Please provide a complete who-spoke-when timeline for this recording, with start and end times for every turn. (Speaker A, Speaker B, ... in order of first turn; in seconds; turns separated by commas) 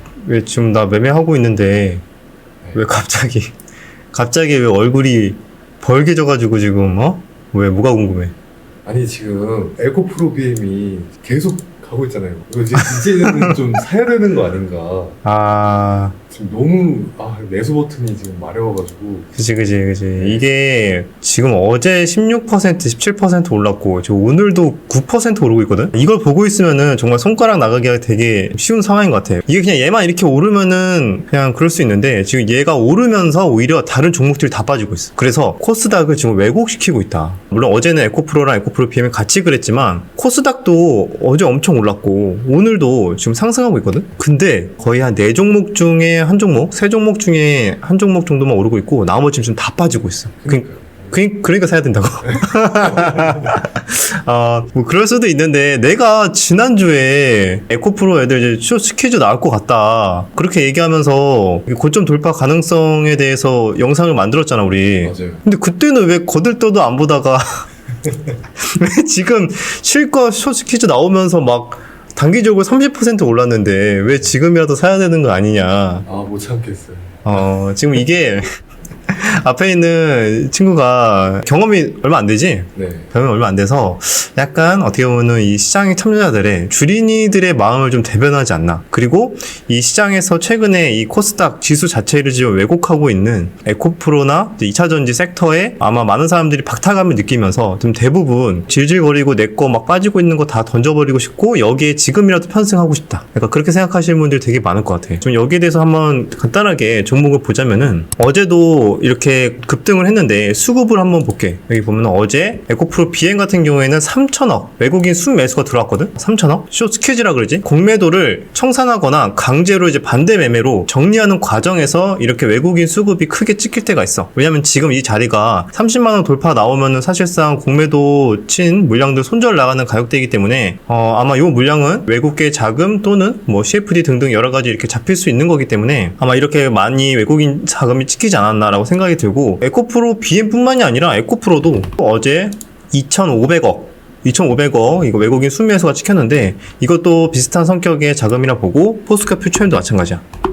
Speaker A: 0.2-2.0, Speaker A: 2.7-3.5, Speaker A: 4.1-8.3, Speaker B: 8.8-15.2, Speaker A: 13.2-13.6, Speaker A: 15.2-16.2, Speaker B: 16.3-19.3, Speaker A: 19.3-67.7, Speaker B: 50.5-50.9, Speaker B: 65.0-65.4, Speaker A: 68.6-76.0, Speaker B: 76.0-77.2, Speaker A: 77.2-78.5, Speaker A: 79.1-150.2, Speaker B: 82.8-83.1